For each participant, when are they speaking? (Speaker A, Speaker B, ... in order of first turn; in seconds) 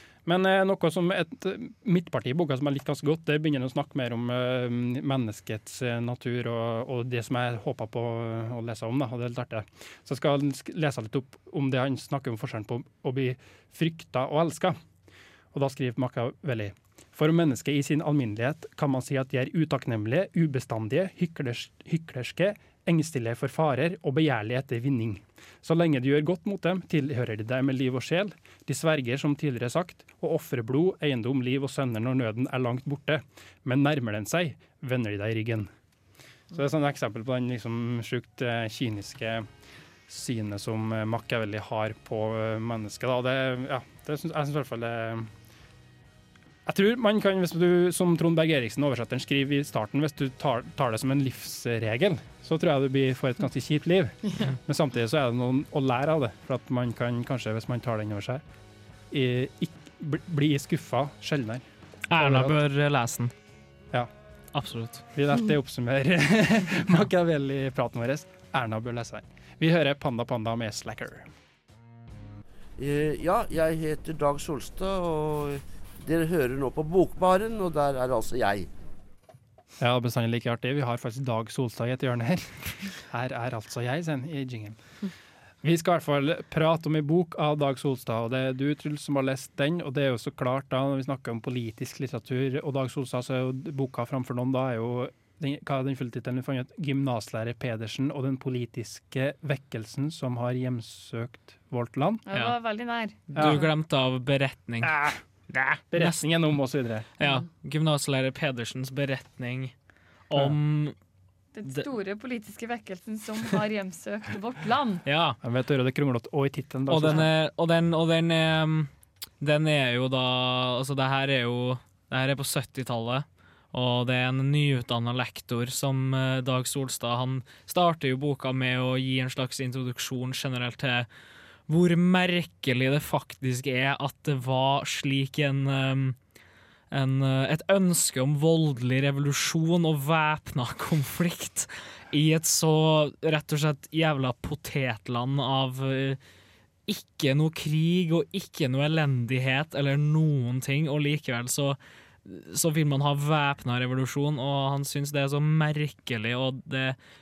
Speaker A: 0.2-14.8, 15.5-35.7, 36.5-39.5, 40.1-45.3, 46.6-58.4, 59.1-61.6, 62.2-62.6, 65.1-71.3, 79.8-84.8, 85.6-102.2, 103.3-103.7, 104.8-105.2, 105.9-107.1, 115.4-117.3
Speaker B: 62.1-63.3, 64.5-65.0, 103.3-106.2, 107.2-109.7, 110.3-111.0, 115.0-115.4, 116.9-131.1, 131.7-136.2, 136.9-146.2, 146.9-157.0
Speaker C: 72.8-78.7
Speaker D: 102.3-103.6, 111.5-115.0